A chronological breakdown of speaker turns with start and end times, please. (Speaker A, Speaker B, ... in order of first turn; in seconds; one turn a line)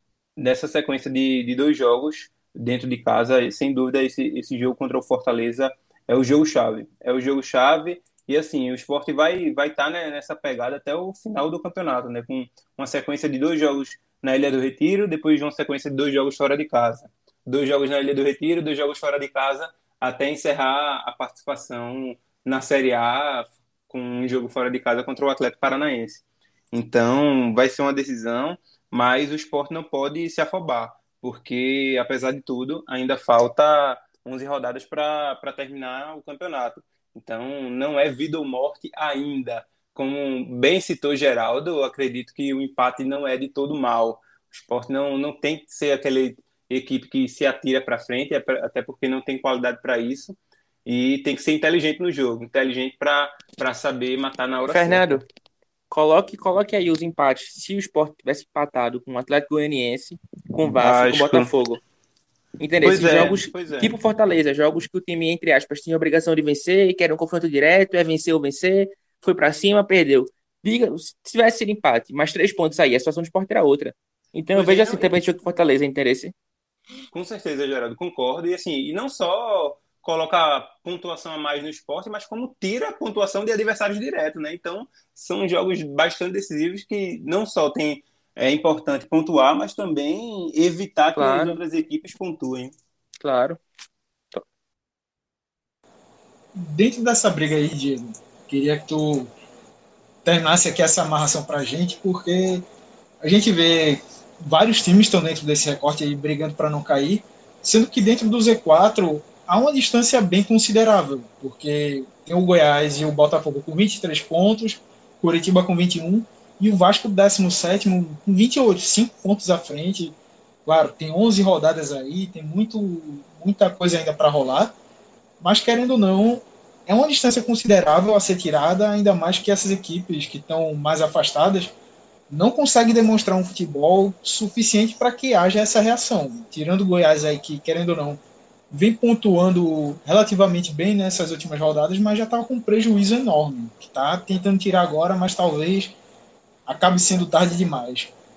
Speaker A: 0.4-55.1
Speaker B: 54.6-55.2
Speaker B: 55.9-61.8
Speaker A: 60.6-61.5
Speaker B: 62.6-76.3
Speaker A: 62.8-64.0
Speaker A: 74.5-75.2
Speaker A: 77.1-92.8
Speaker B: 91.1-91.6
Speaker B: 93.2-93.6
Speaker C: 96.5-99.3
Speaker C: 100.2-102.6
Speaker C: 103.2-124.7
Speaker C: 125.4-131.7
Speaker C: 132.3-145.9
Speaker C: 146.7-148.1